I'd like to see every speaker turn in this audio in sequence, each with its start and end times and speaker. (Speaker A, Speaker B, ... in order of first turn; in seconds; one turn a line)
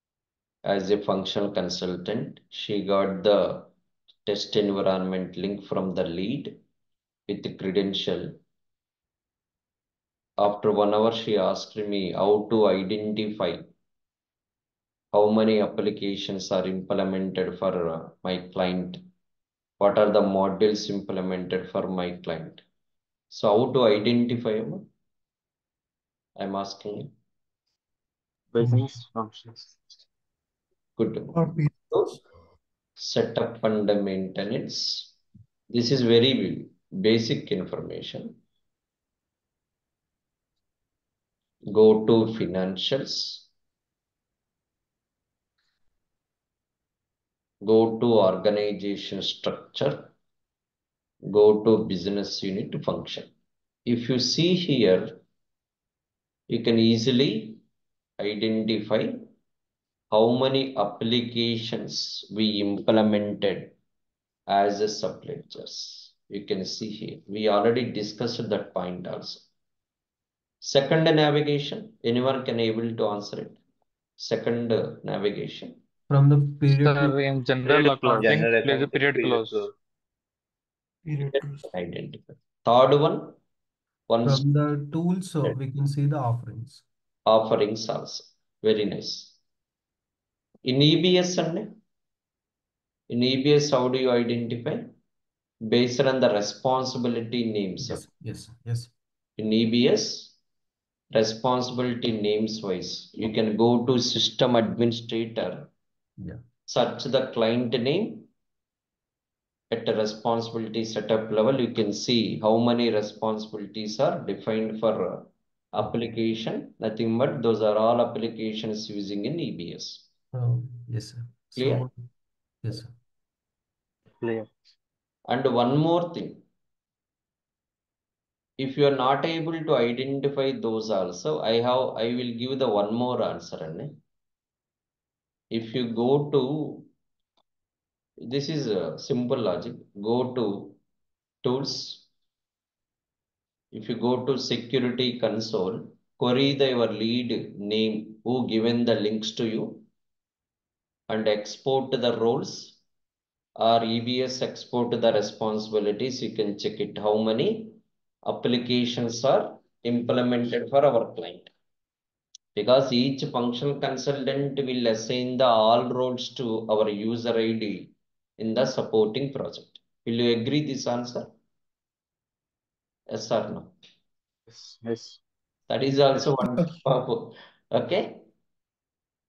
Speaker A: 0.6-3.7
Speaker A: 4.2-6.6
Speaker A: 7.3-8.4
Speaker A: 10.4-13.7
Speaker A: 15.1-19.0
Speaker A: 19.8-22.6
Speaker A: 23.3-24.9
Speaker A: 26.4-27.1
Speaker B: 28.6-29.5
Speaker A: 31.0-31.4
Speaker C: 31.4-31.9
Speaker A: 33.0-35.1
Speaker A: 35.7-38.4
Speaker A: 41.7-43.5
Speaker A: 47.6-50.1
Speaker A: 51.3-53.3
Speaker A: 53.9-55.2
Speaker A: 56.5-57.6
Speaker A: 58.2-59.2
Speaker A: 60.1-63.7
Speaker A: 64.5-69.5
Speaker A: 70.6-73.6
Speaker A: 74.2-75.8
Speaker C: 76.1-77.2
Speaker D: 76.8-79.7
Speaker B: 77.6-79.7
Speaker A: 81.2-83.4
Speaker A: 84.1-84.4
Speaker C: 84.2-86.8
Speaker A: 87.2-89.4
Speaker A: 90.6-91.8
Speaker A: 93.1-94.9
Speaker A: 95.7-98.0
Speaker C: 97.8-98.9
Speaker A: 99.4-100.3
Speaker A: 101.1-105.7
Speaker A: 106.7-108.3
Speaker A: 109.7-120.1
Speaker C: 120.3-122.0
Speaker A: 121.6-121.8
Speaker C: 122.6-122.9
Speaker A: 125.3-126.4
Speaker A: 128.6-133.9
Speaker A: 135.5-136.9
Speaker A: 138.3-140.8
Speaker A: 141.4-142.1
Speaker A: 143.7-149.8
Speaker A: 151.1-152.8
Speaker A: 153.6-161.5
Speaker A: 162.5-171.3
Speaker A: 173.1-173.7
Speaker B: 174.6-175.2
Speaker A: 175.7-178.2